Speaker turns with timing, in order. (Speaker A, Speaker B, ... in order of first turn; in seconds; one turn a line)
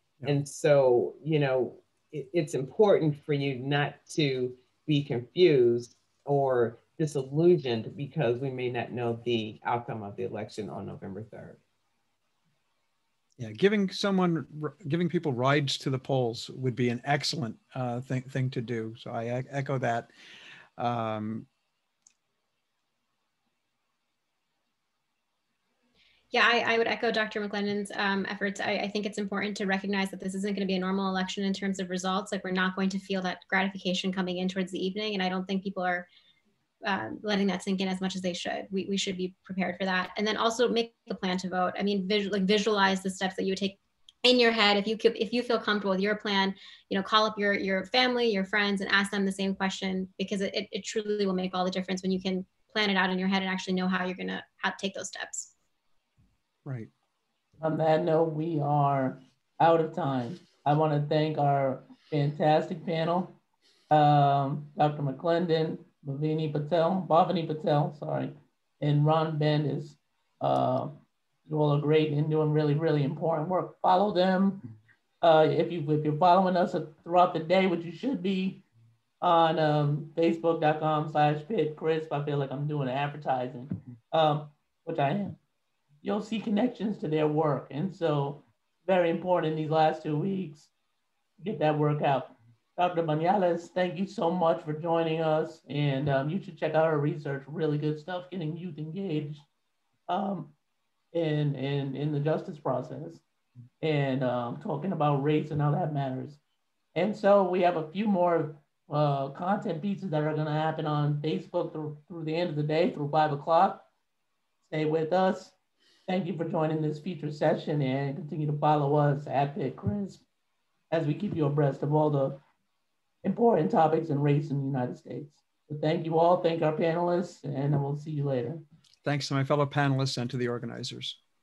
Speaker A: 0.2-11.6
Speaker B: 13.4-20.1
Speaker B: 20.8-21.5
Speaker C: 26.3-36.1
Speaker C: 36.8-55.5
Speaker B: 56.6-56.9
Speaker D: 57.6-63.4
Speaker D: 63.9-74.7
Speaker D: 75.2-78.6
Speaker D: 79.2-85.4
Speaker D: 86.0-90.7
Speaker D: 91.4-99.5
Speaker D: 100.1-100.5
Speaker D: 101.1-103.2
Speaker D: 103.8-106.4
Speaker D: 106.9-113.9
Speaker D: 114.7-115.5
Speaker D: 116.1-120.2
Speaker D: 120.9-122.4
Speaker D: 123.2-128.6
Speaker B: 129.0-131.2